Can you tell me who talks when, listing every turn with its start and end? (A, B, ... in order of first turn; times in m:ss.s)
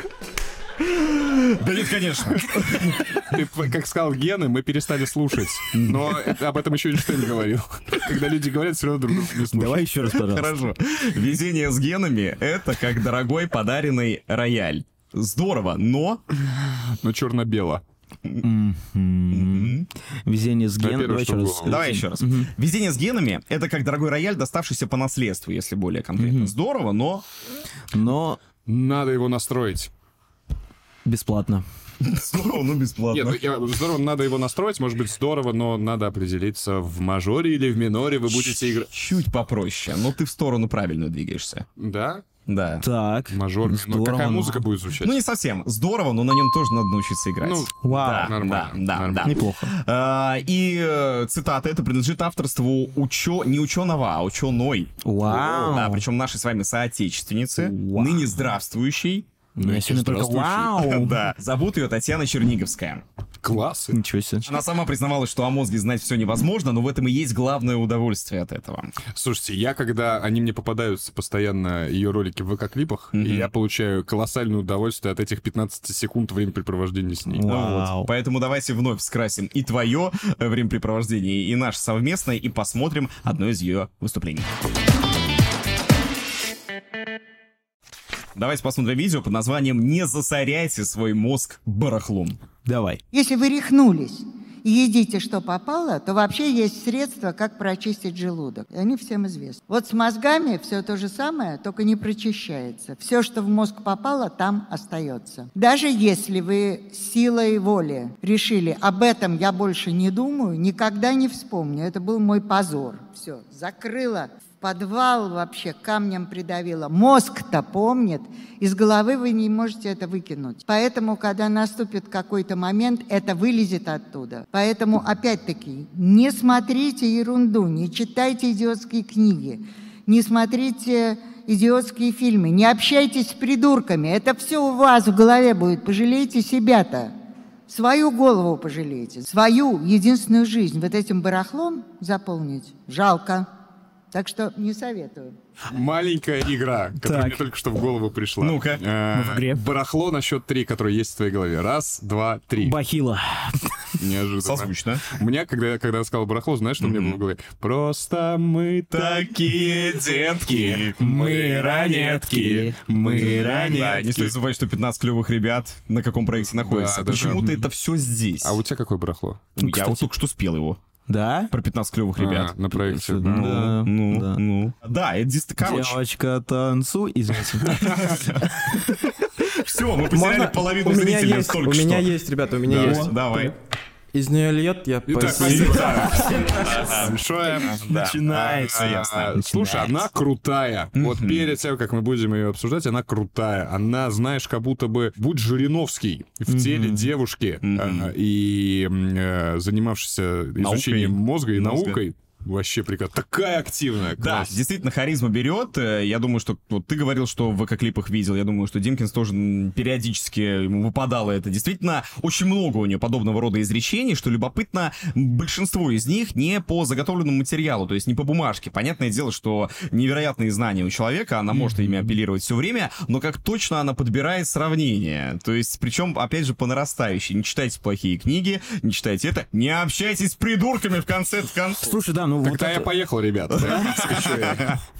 0:00.8-0:03.1 A
0:03.0-0:09.9 B
0:05.7-0:06.3 A
0:09.5-0:10.5 C
0:10.1-0:16.2 A
0:16.6-0:17.8 B
0:18.4-0:22.5 C
0:19.3-0:19.9 A
0:20.8-0:21.8 B
0:21.6-0:27.3 A
0:26.2-0:26.5 C
0:27.9-0:28.4 C
0:28.7-0:29.9 B
0:31.0-0:31.6 C
0:32.0-0:33.4 A
0:33.1-0:38.9 B
0:38.3-0:41.7 A
0:41.8-0:42.2 B
0:42.5-0:42.8 A
0:42.8-0:44.6 C
0:43.3-0:45.2 B
0:45.0-1:03.0 A
0:47.4-0:49.3 B
0:47.8-0:48.3 C
0:49.2-0:49.7 C
0:55.0-0:56.0 C
0:57.6-0:58.3 C
0:59.6-1:01.2 C
1:03.4-1:04.0 B
1:03.9-1:04.5 C
1:04.4-1:08.9 A
1:09.1-1:17.5 B
1:13.1-1:13.5 A
1:17.3-1:18.1 C
1:17.4-1:24.5 A
1:28.4-1:32.4 A
1:32.7-1:33.0 C
1:33.1-2:17.1 D
2:17.7-2:23.5 D
2:24.1-2:25.4 D
2:25.7-2:32.8 B
2:27.0-2:27.4 C
2:28.4-2:28.8 A
2:29.1-2:29.6 C
2:32.6-2:33.9 C
2:34.0-2:44.4 B
2:34.4-2:35.1 A
2:36.8-2:37.2 A
2:38.9-2:41.1 A
2:40.7-2:44.0 C
2:43.1-2:48.6 A
2:46.5-2:47.6 B
2:47.3-2:47.6 C
2:48.4-2:49.5 B
2:49.6-2:50.8 A
2:49.6-2:50.1 C
2:51.1-2:51.5 C
2:51.5-2:56.0 A
2:52.2-2:53.6 B
2:53.0-2:54.4 C
2:55.6-2:58.2 C
2:57.8-2:58.8 A
2:59.5-3:02.2 A
3:00.1-3:03.5 E
3:02.7-3:03.5 A
3:02.7-3:03.0 B
3:02.8-3:03.1 C
3:04.1-3:05.9 E
3:05.1-3:24.6 B
3:05.4-3:07.2 C
3:07.6-3:09.4 A
3:07.8-3:10.0 C
3:11.0-3:11.6 A
3:16.5-3:17.1 C
3:17.6-3:18.1 A
3:20.6-3:22.0 A
3:24.2-3:52.0 A
3:41.6-3:42.1 C
3:51.8-3:52.9 C
3:52.4-3:54.8 B
3:53.7-3:54.3 C
3:53.7-3:54.7 A